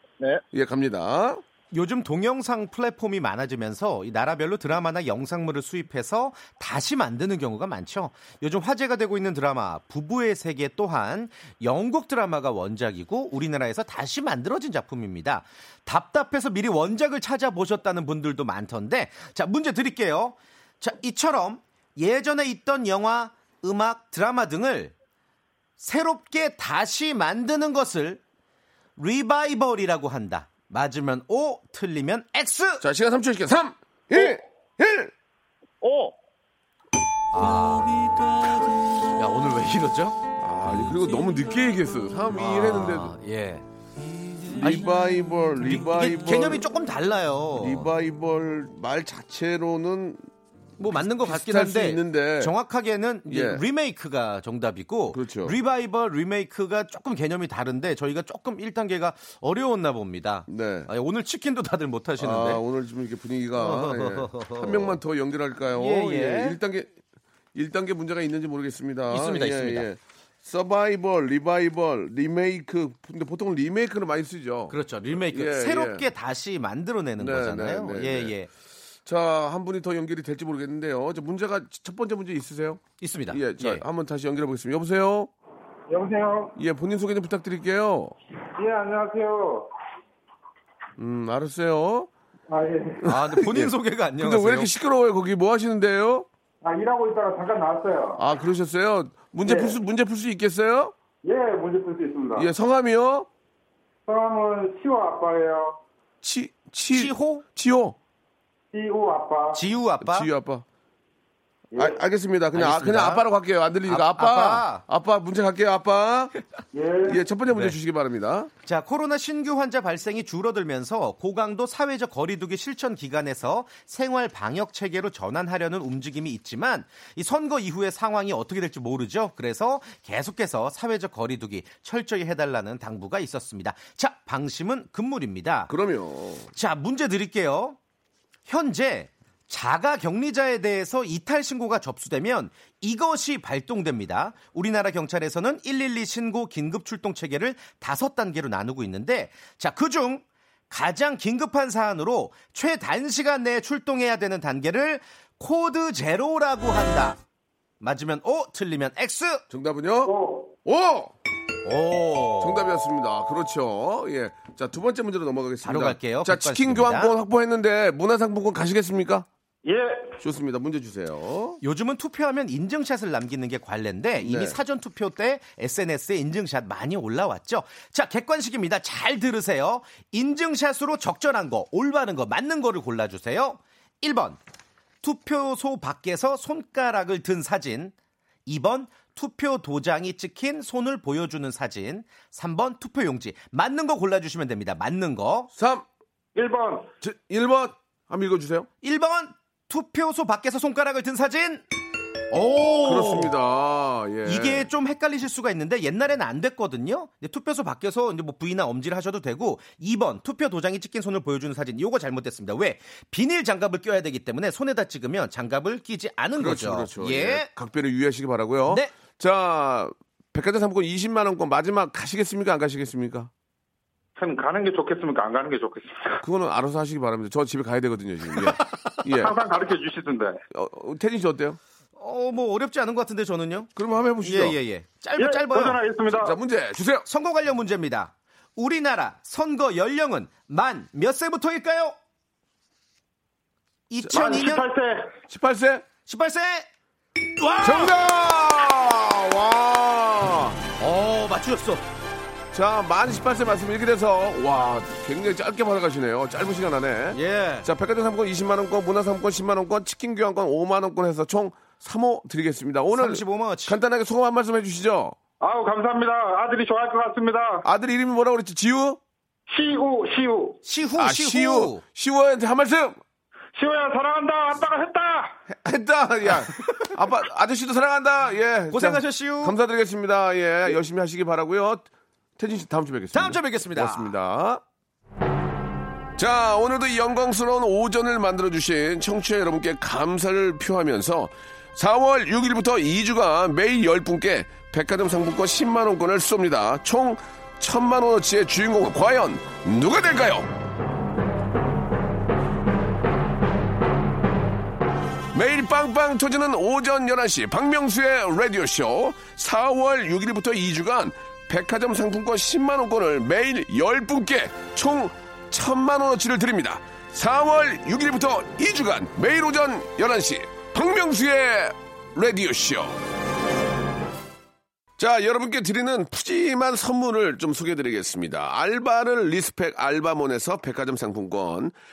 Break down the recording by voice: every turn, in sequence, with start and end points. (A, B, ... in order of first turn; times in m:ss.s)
0:00.5-0:01.4 A
0:01.7-0:24.9 B
0:25.8-0:28.2 B
0:29.0-0:32.8 B
0:32.8-0:35.1 A
0:35.8-0:36.1 C
0:37.3-0:38.0 B
0:39.1-0:40.2 B
0:40.4-0:43.1 A
0:42.3-0:43.6 B
0:44.5-0:46.7 A
0:45.6-0:47.9 B
0:47.6-0:50.2 A
0:50.8-1:02.6 B
0:51.2-0:52.6 A
0:53.3-0:53.6 A
0:55.1-0:55.6 A
1:00.5-1:00.9 A
1:02.2-1:06.9 A
1:03.6-1:05.0 B
1:05.8-1:06.6 B
1:07.5-1:16.1 A
1:09.1-1:09.9 B
1:14.7-1:18.5 B
1:17.2-1:18.3 A
1:19.1-1:25.3 A
1:23.0-1:23.8 B
1:25.9-1:26.5 C
1:26.6-1:28.1 A
1:28.6-1:29.7 C
1:31.0-1:32.1 A
1:32.5-1:33.1 C
1:33.0-1:34.7 B
1:33.1-1:36.3 A
1:36.6-1:38.2 C
1:38.2-1:40.9 A
1:39.4-1:39.8 C
1:41.2-1:42.5 C
1:42.4-1:43.3 A
1:44.1-1:45.8 C
1:46.2-1:48.0 A
1:46.9-1:47.4 B
1:48.7-1:49.6 C
1:49.5-1:50.3 B
1:50.0-1:50.6 A
1:51.8-1:56.3 A
1:52.5-1:53.2 B
1:53.9-1:54.8 B
1:56.7-1:57.2 C
1:57.0-1:58.5 A
1:58.6-2:15.7 B
2:15.7-2:16.5 A
2:16.5-2:17.8 B
2:18.5-2:37.2 B
2:37.8-2:39.4 B
2:39.5-2:41.2 A
2:40.0-2:40.5 C
2:41.6-2:42.7 B
2:42.4-2:49.3 A
2:45.6-2:47.1 B
2:49.6-2:50.2 C
2:50.2-2:51.6 A
2:51.6-3:04.4 B
2:54.2-2:54.6 A
3:05.0-3:07.9 B
3:08.5-3:15.5 B
3:15.6-3:15.9 A
3:16.4-3:16.9 C
3:17.0-3:18.7 A
3:18.8-3:21.7 B
3:22.3-3:23.3 B
3:22.8-3:24.7 A
3:24.2-3:37.5 B
3:36.4-3:43.3 A
3:38.7-3:38.9 B
3:44.2-3:46.2 C
3:46.2-3:49.4 A
3:49.1-3:50.4 C
3:50.5-3:51.6 A
3:52.0-3:53.7 B
3:53.8-3:54.6 A
3:54.2-3:55.8 B
3:55.2-3:56.3 C
3:56.1-3:57.1 A
3:57.0-4:02.0 B
4:03.9-4:04.7 B
4:04.1-4:05.1 C
4:05.3-4:05.9 A
4:06.1-4:06.7 B
4:07.2-4:08.0 B
4:07.6-4:10.6 A
4:10.8-4:11.8 B
4:12.5-4:25.2 A
4:17.1-4:17.7 B
4:22.9-4:23.8 B
4:25.4-4:27.6 C
4:27.6-4:29.0 A
4:29.5-4:30.6 C
4:30.6-4:31.8 B
4:31.0-4:33.0 A
4:33.6-4:35.4 C
4:35.5-4:41.9 A
4:38.7-4:39.6 B
4:42.4-4:44.6 A
4:43.1-4:44.1 B
4:46.2-5:00.5 A
5:05.3-5:23.0 A
5:25.0-5:31.7 A